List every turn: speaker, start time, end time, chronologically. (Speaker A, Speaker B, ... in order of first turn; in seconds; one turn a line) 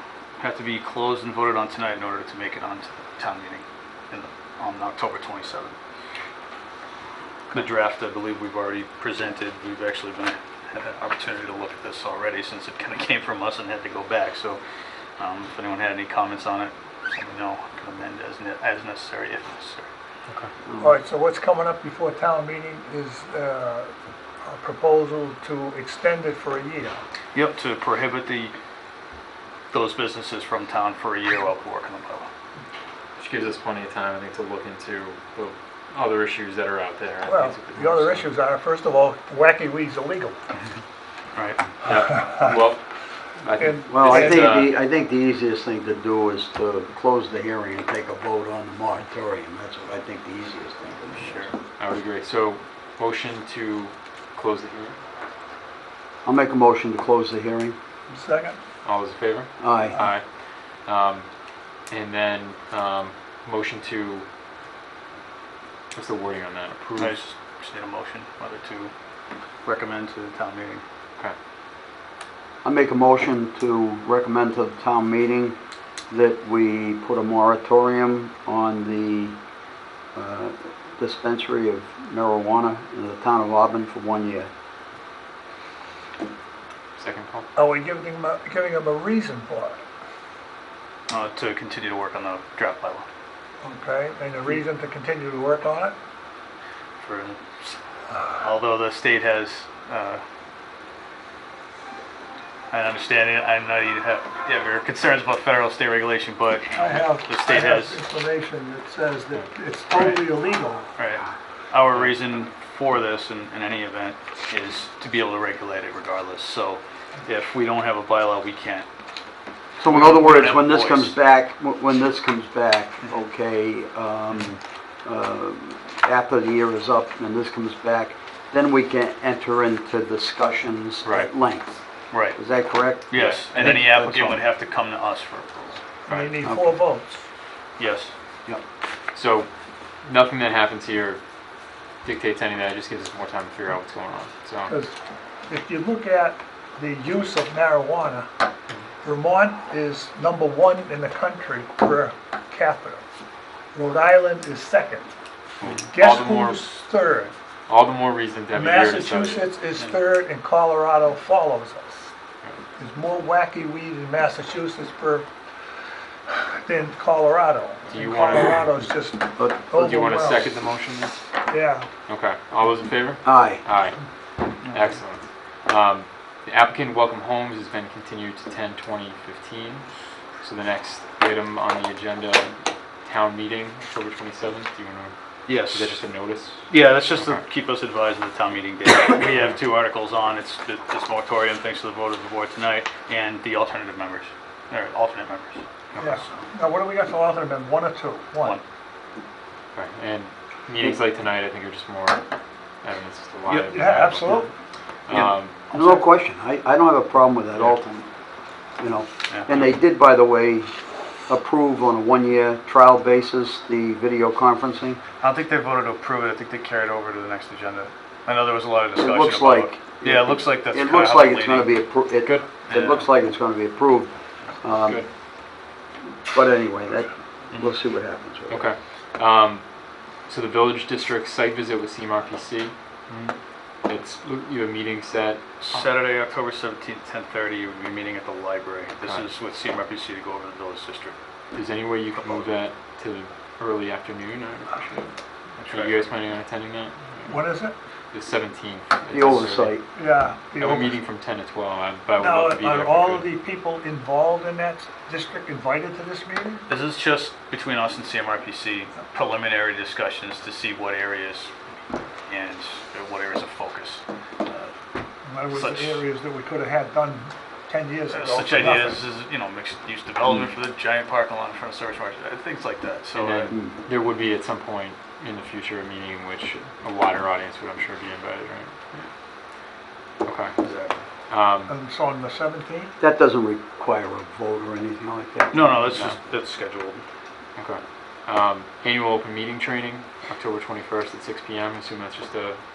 Speaker A: 0.4-5.8
Speaker A: 7.5-14.6
Speaker A: 15.2-19.9
Speaker B: 20.7-21.0
Speaker C: 20.8-23.9
Speaker C: 24.4-27.0
Speaker A: 27.3-28.5
Speaker A: 29.7-32.3
Speaker D: 33.2-38.3
Speaker C: 37.2-40.4
Speaker A: 41.4-41.6
Speaker D: 41.8-42.8
Speaker D: 43.4-44.7
Speaker C: 43.6-44.4
Speaker B: 43.9-51.5
Speaker A: 51.1-51.5
Speaker D: 51.8-55.0
Speaker B: 56.2-57.8
Speaker C: 58.1-58.6
Speaker D: 58.8-61.3
Speaker B: 59.6-60.0
Speaker D: 61.9-64.3
Speaker D: 65.9-67.2
Speaker A: 67.0-68.9
Speaker A: 69.6-70.8
Speaker B: 72.6-75.6
Speaker B: 76.1-79.4
Speaker B: 80.2-84.5
Speaker D: 87.0-87.5
Speaker C: 87.6-89.8
Speaker A: 91.1-93.1
Speaker C: 93.6-96.0
Speaker A: 97.0-97.8
Speaker A: 98.4-100.2
Speaker A: 102.7-108.0
Speaker C: 106.7-110.9
Speaker A: 109.9-110.2
Speaker A: 111.0-118.9
Speaker B: 119.8-131.7
Speaker A: 119.8-121.2
Speaker D: 131.0-131.3
Speaker A: 132.1-132.4
Speaker B: 132.3-134.4
Speaker A: 133.1-135.8
Speaker D: 133.1-133.5
Speaker D: 136.1-136.4
Speaker C: 136.1-137.3
Speaker B: 136.4-136.8
Speaker A: 137.8-138.1
Speaker D: 139.1-139.5
Speaker D: 140.0-141.2
Speaker D: 142.0-144.8
Speaker C: 144.7-145.0
Speaker C: 145.5-148.3
Speaker C: 149.0-153.0
Speaker C: 153.7-155.1
Speaker D: 155.6-156.7
Speaker C: 155.6-157.3
Speaker D: 157.7-160.0
Speaker C: 158.5-162.1
Speaker C: 162.8-165.3
Speaker C: 166.3-170.5
Speaker D: 167.9-168.7
Speaker D: 169.5-171.2
Speaker C: 171.5-171.9
Speaker D: 172.1-174.0
Speaker B: 173.2-173.6
Speaker D: 174.6-187.4
Speaker A: 174.6-174.9
Speaker A: 185.5-186.0
Speaker A: 186.7-196.5
Speaker D: 189.3-189.6
Speaker D: 195.9-196.2
Speaker C: 196.0-198.6
Speaker D: 199.7-202.2
Speaker D: 202.8-204.5
Speaker C: 203.7-204.5
Speaker D: 205.1-205.5
Speaker A: 205.1-206.0
Speaker B: 205.7-208.1
Speaker B: 208.8-210.7
Speaker A: 209.3-209.6
Speaker B: 211.3-215.0
Speaker A: 215.2-221.7
Speaker B: 219.0-225.1
Speaker A: 222.7-223.1
Speaker B: 226.3-228.7
Speaker D: 228.5-229.6
Speaker D: 230.3-232.7
Speaker A: 233.1-233.3
Speaker D: 233.9-235.8
Speaker A: 235.6-241.2
Speaker D: 241.5-245.1
Speaker A: 242.2-242.5
Speaker A: 245.6-246.1
Speaker D: 245.7-247.5
Speaker C: 247.3-247.8
Speaker D: 248.1-249.8
Speaker B: 249.1-249.8
Speaker C: 249.9-251.0
Speaker D: 250.6-253.3
Speaker C: 252.2-256.7
Speaker A: 256.7-261.5
Speaker A: 262.3-264.7
Speaker C: 265.3-269.0
Speaker A: 265.5-266.1
Speaker A: 268.1-273.6
Speaker D: 273.1-279.1
Speaker D: 280.2-280.6
Speaker A: 280.6-281.0
Speaker D: 281.3-281.7
Speaker C: 281.7-282.9
Speaker B: 283.0-285.8
Speaker A: 285.5-287.0
Speaker D: 287.6-292.6